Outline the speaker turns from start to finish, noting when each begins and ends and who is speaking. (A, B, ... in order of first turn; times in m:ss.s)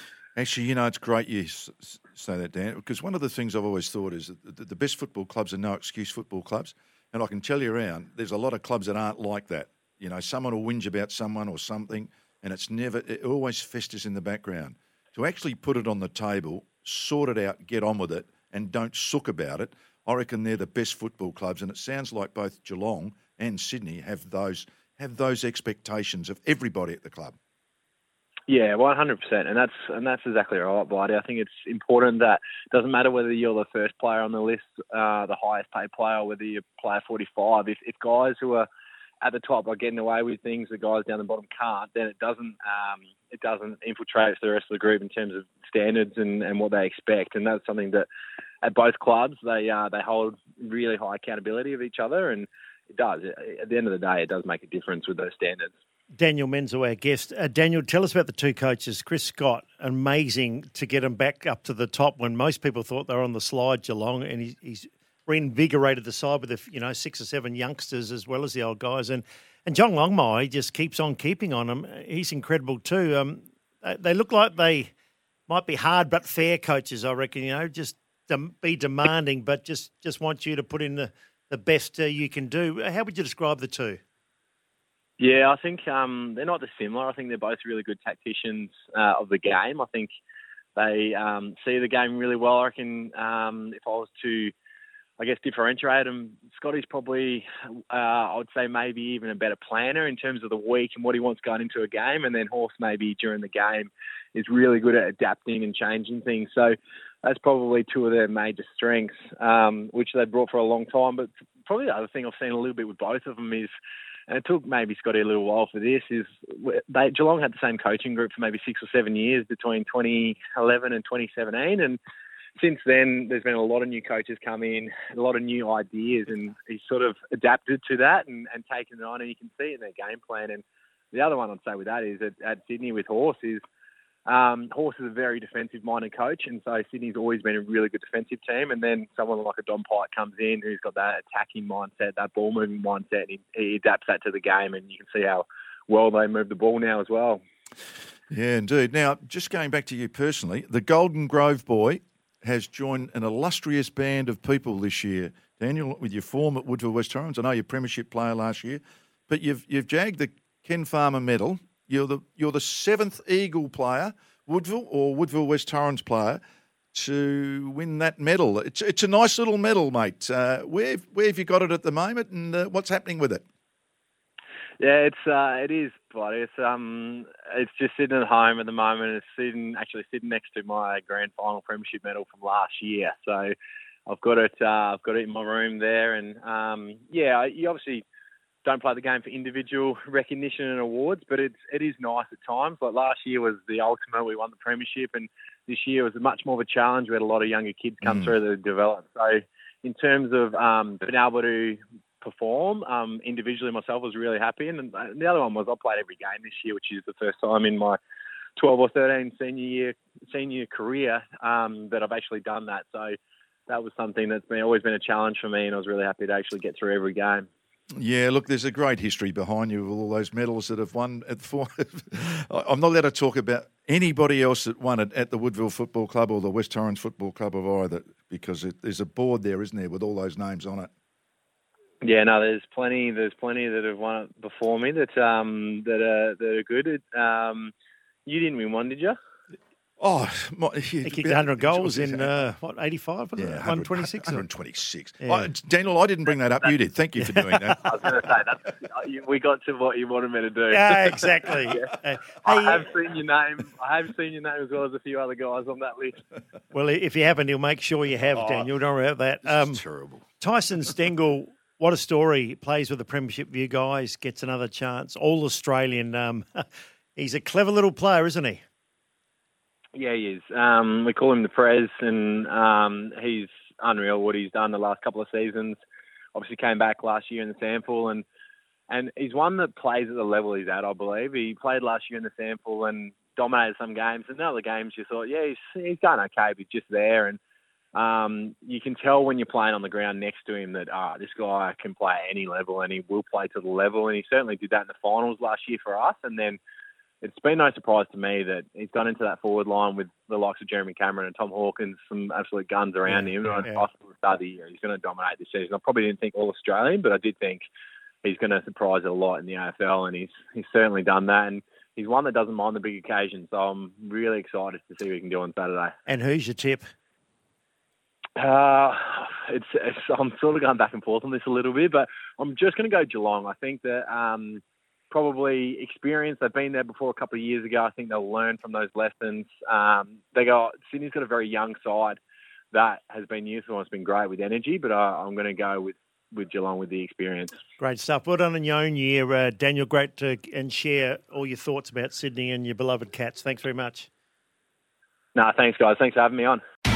0:00.4-0:27.4 A
0:28.5-0:38.7 B
0:39.2-0:48.1 B
0:48.6-0:55.7 B
0:56.1-1:14.9 C
1:15.5-1:24.0 C
1:25.2-1:30.1 B
1:30.8-1:34.5 B
1:35.2-1:53.7 B
1:54.3-2:02.0 B
2:02.6-2:10.6 B
2:11.1-2:13.6 B
2:14.3-2:27.4 B
2:28.3-2:46.4 A
2:46.9-2:53.4 A
2:54.8-3:03.5 B
3:04.1-3:08.0 B
3:08.6-3:28.0 B
3:28.6-3:33.2 B
3:33.7-3:37.5 B
3:38.0-3:50.9 A
3:52.0-3:57.7 B
3:58.2-3:59.2 B
4:00.0-4:02.4 A
4:01.0-4:04.5 C
4:03.4-4:08.1 A
4:05.2-4:05.5 C
4:07.2-4:07.8 C
4:07.8-4:16.2 B
4:10.7-4:12.8 C
4:16.7-4:19.8 C
4:18.3-4:18.7 A
4:19.4-4:20.2 A
4:20.4-4:28.6 C
4:30.0-4:35.8 B
4:36.3-4:38.2 B
4:38.9-4:47.4 B
4:48.0-4:56.6 B
4:57.2-5:07.6 B
5:03.1-5:03.8 C
5:08.2-5:16.0 B
5:16.1-5:16.8 C
5:18.4-5:32.2 B
5:32.7-5:37.5 B
5:37.8-5:44.1 C
5:45.4-5:46.6 B